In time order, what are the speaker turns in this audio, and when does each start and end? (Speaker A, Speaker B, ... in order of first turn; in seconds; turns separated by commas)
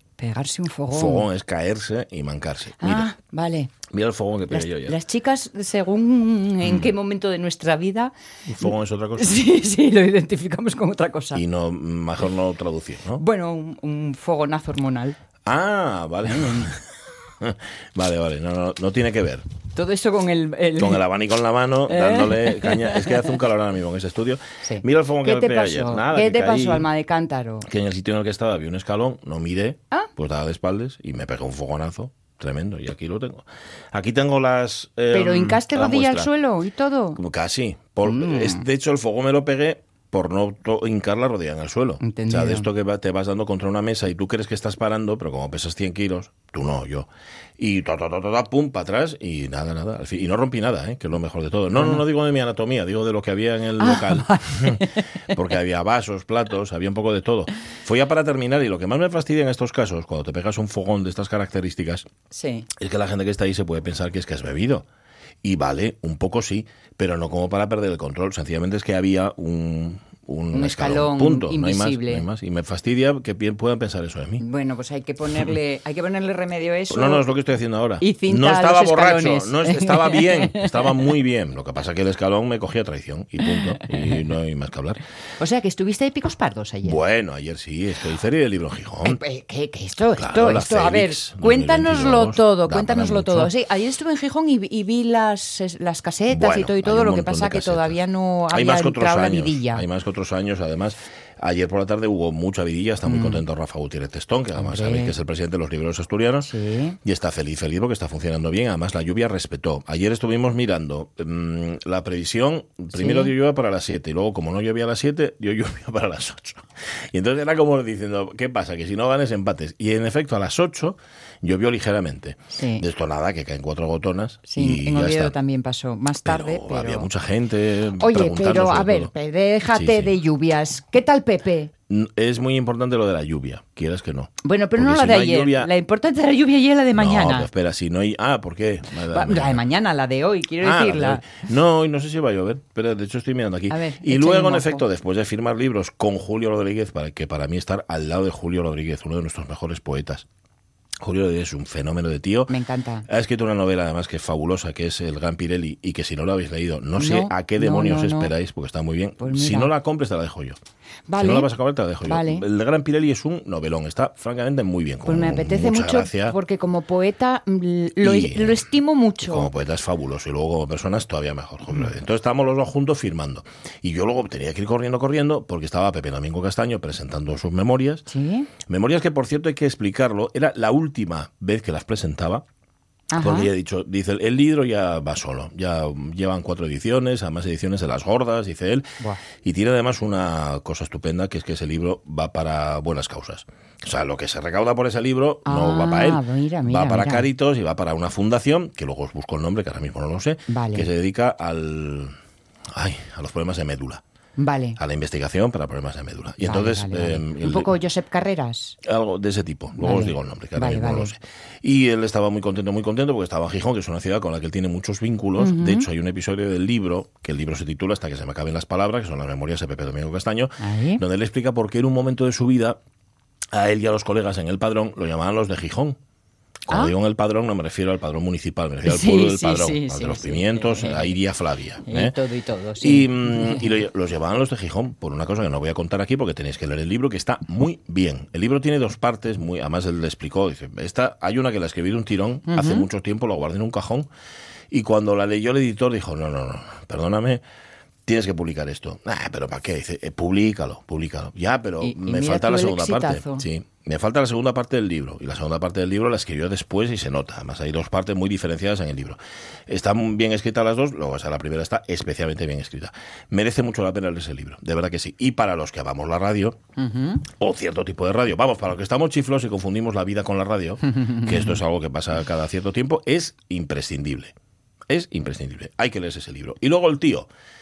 Speaker A: 0.2-1.3, Speaker B: 0.9-3.1, Speaker A: 2.8-3.7, Speaker B: 3.9-5.0, Speaker A: 4.5-11.4, Speaker B: 6.6-6.9, Speaker B: 8.5-9.4, Speaker B: 11.3-13.2, Speaker A: 13.2-15.2, Speaker B: 15.4-19.4, Speaker A: 16.3-16.7, Speaker A: 19.7-21.0, Speaker B: 20.8-26.9, Speaker A: 21.9-23.3, Speaker A: 24.6-27.6, Speaker B: 27.6-36.3, Speaker A: 35.1-37.2, Speaker B: 37.1-62.1, Speaker A: 38.0-38.6, Speaker A: 42.0-42.7, Speaker A: 51.7-52.0, Speaker A: 53.8-55.0, Speaker A: 62.3-62.7, Speaker B: 62.8-64.8, Speaker B: 65.4-74.4, Speaker A: 70.5-72.2, Speaker A: 74.4-77.3, Speaker B: 76.9-85.0, Speaker A: 78.0-81.0, Speaker A: 83.4-84.2, Speaker A: 85.4-87.0, Speaker B: 86.8-89.2, Speaker A: 89.0-99.9, Speaker B: 90.2-93.5, Speaker B: 96.3-98.0, Speaker B: 98.5-106.5, Speaker A: 103.0-103.4, Speaker A: 104.6-105.2, Speaker A: 106.4-107.0, Speaker B: 107.0-125.3, Speaker A: 112.9-113.3, Speaker A: 122.5-122.8, Speaker A: 124.5-127.1, Speaker B: 126.2-129.1, Speaker A: 128.0-131.7, Speaker B: 129.7-130.1, Speaker B: 131.9-135.7, Speaker A: 134.4-137.5, Speaker B: 137.0-139.6, Speaker A: 139.1-141.4, Speaker B: 140.6-150.3, Speaker A: 143.7-144.8, Speaker B: 151.0-152.6, Speaker A: 152.5-153.1, Speaker B: 153.1-160.6, Speaker A: 157.0-158.3, Speaker A: 159.2-159.7, Speaker A: 161.1-161.5, Speaker B: 161.2-166.3, Speaker A: 162.0-162.4, Speaker A: 165.0-169.5, Speaker B: 168.0-168.6, Speaker B: 169.2-178.1, Speaker A: 178.1-178.5, Speaker B: 178.6-182.4, Speaker A: 183.1-183.5, Speaker B: 183.2-202.2, Speaker A: 195.4-197.2, Speaker A: 200.5-200.9, Speaker B: 202.7-204.0, Speaker A: 204.4-204.8, Speaker B: 204.8-207.7, Speaker A: 206.4-208.8, Speaker B: 208.8-222.8, Speaker A: 209.8-211.1, Speaker A: 215.4-215.9, Speaker A: 220.6-221.0, Speaker B: 223.5-226.0, Speaker B: 226.7-232.1, Speaker A: 228.8-231.2, Speaker A: 231.8-233.7, Speaker B: 232.8-244.1, Speaker A: 242.5-242.8, Speaker B: 244.7-247.4, Speaker B: 248.1-266.6, Speaker A: 251.8-253.4, Speaker A: 266.8-267.2, Speaker B: 267.2-274.3, Speaker A: 271.0-271.6, Speaker B: 274.9-277.3